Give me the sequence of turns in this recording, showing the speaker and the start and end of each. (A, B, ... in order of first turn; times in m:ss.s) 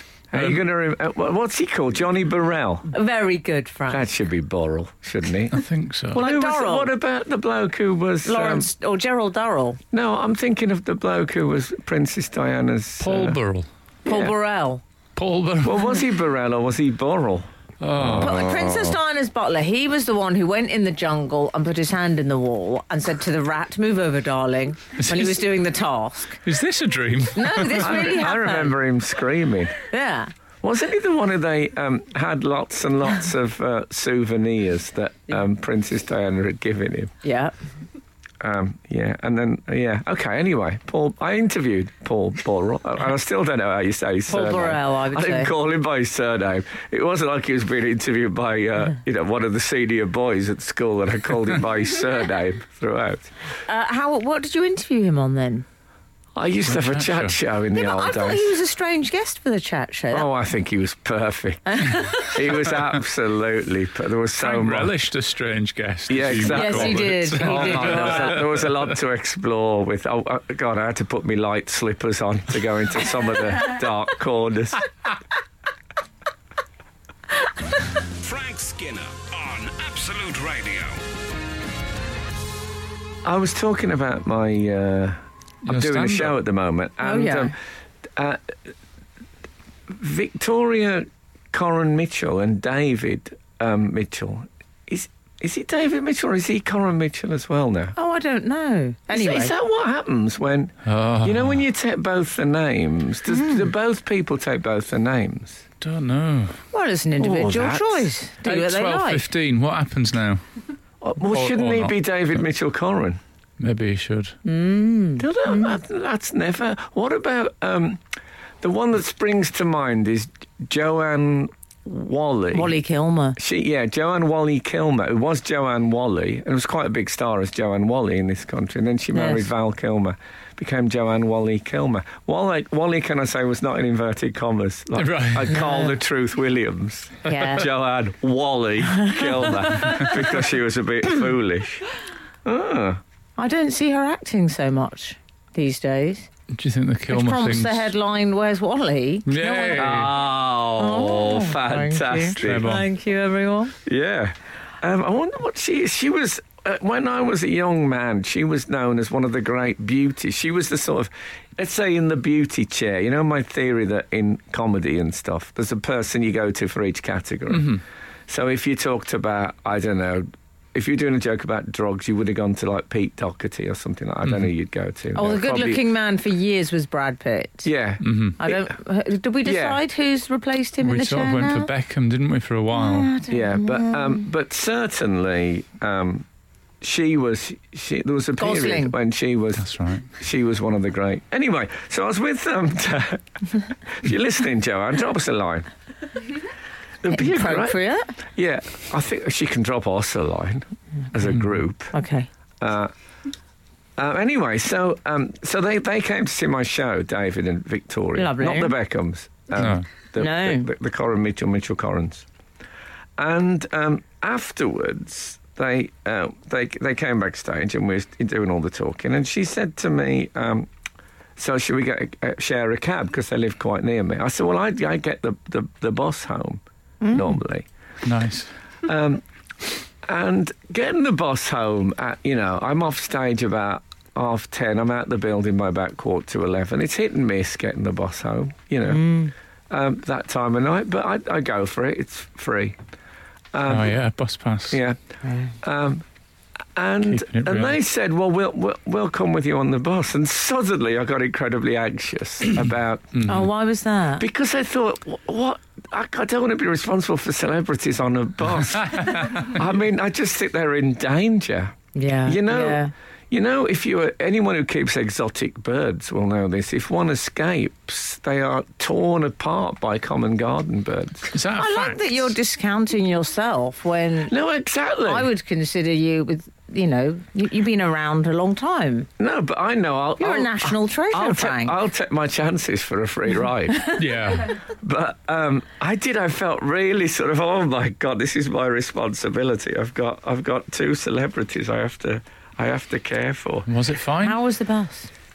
0:00.3-0:02.9 A
0:00.3-0:00.6 B
0:02.9-0:04.1 C
0:03.9-0:05.6 A
0:05.5-0:06.2 B
0:06.1-0:08.7 A
0:06.1-0:06.9 C
0:08.2-0:09.8 C
0:09.9-0:13.4 A
0:13.0-0:13.7 B
0:14.0-0:14.8 C
0:14.0-0:14.3 A
0:15.2-0:16.0 B
0:15.6-0:18.9 A
0:17.8-0:18.7 B
0:18.2-0:26.4 C
0:25.0-0:25.4 B
0:26.4-0:28.0 B
0:27.3-0:28.8 C
0:27.8-0:29.8 A
0:29.8-0:30.3 C
0:30.6-0:37.1 A
0:37.2-0:37.5 C
0:38.4-0:53.3 A
0:44.3-0:45.5 C
0:53.7-0:55.6 C
0:56.3-0:58.4 A
0:56.7-0:57.4 B
0:57.7-1:00.3 C
1:00.1-1:04.9 A
1:01.7-1:02.3 C
1:04.4-1:08.7 B
1:06.1-1:14.8 A
1:06.4-1:08.4 C
1:18.2-1:21.0 D
1:23.2-1:27.5 A
1:25.6-1:26.3 B
1:27.0-1:27.5 C
1:28.2-1:28.4 A
1:29.9-1:37.9 A
1:38.0-1:39.5 C
1:39.1-1:45.6 A
1:40.8-1:41.6 B
1:43.3-1:43.6 C
1:45.8-1:46.6 B
1:46.7-1:49.3 C
1:47.2-1:48.1 A
1:48.4-1:50.4 B
1:51.0-1:53.2 A
1:51.3-1:52.0 B
1:53.6-1:54.4 B
1:54.4-1:55.8 C
1:55.2-1:58.0 A
1:58.6-2:02.8 A
2:02.5-2:03.4 C
2:03.4-2:21.8 A
2:09.1-2:09.5 C
2:14.9-2:15.5 B
2:15.5-2:15.9 C
2:17.2-2:17.6 C
2:19.0-2:20.1 C
2:22.4-2:23.0 A
2:23.4-2:26.3 C
2:26.5-2:27.9 B
2:27.1-2:30.1 C
2:29.2-2:30.1 B
2:29.7-2:32.7 A
2:30.7-2:33.7 C
2:32.4-2:32.9 B
2:33.8-2:55.8 A
2:47.5-2:47.8 B
2:54.2-2:54.5 B
2:55.1-2:57.7 C
2:57.6-2:58.7 A
2:58.0-2:58.4 B
2:58.4-3:01.7 C
2:59.4-2:59.8 A
3:00.8-3:03.1 B
3:02.7-3:04.2 C
3:03.3-3:06.2 A
3:06.8-3:15.7 A
3:08.4-3:08.9 C
3:09.6-3:10.1 B
3:17.0-3:21.9 A
3:17.1-3:18.1 C
3:21.9-3:22.3 C
3:22.6-3:22.9 A
3:24.0-3:32.2 A
3:28.1-3:28.7 C
3:29.6-3:29.8 B
3:30.2-3:30.7 C
3:33.2-3:40.7 A
3:41.4-3:47.7 A
3:47.0-3:47.3 C
3:48.0-3:48.5 B
3:48.8-3:49.2 A
3:50.0-4:02.8 A
3:58.9-3:59.3 C
4:03.5-4:03.9 A
4:03.7-4:04.8 B
4:04.7-4:05.0 A
4:05.2-4:05.5 C
4:05.6-4:06.0 A
4:06.8-4:13.2 A
4:07.0-4:07.8 B
4:13.1-4:13.5 B
4:13.2-4:14.2 C
4:14.2-4:31.3 A
4:19.0-4:19.4 B
4:21.9-4:22.9 C
4:31.3-4:32.3 B
4:31.6-4:34.3 C
4:34.3-4:35.3 A
4:35.0-4:39.1 C
4:39.2-4:43.9 A
4:40.2-4:41.8 C
4:43.9-4:44.5 B
4:44.6-4:53.7 A
4:53.7-4:54.4 B
4:54.2-4:55.1 C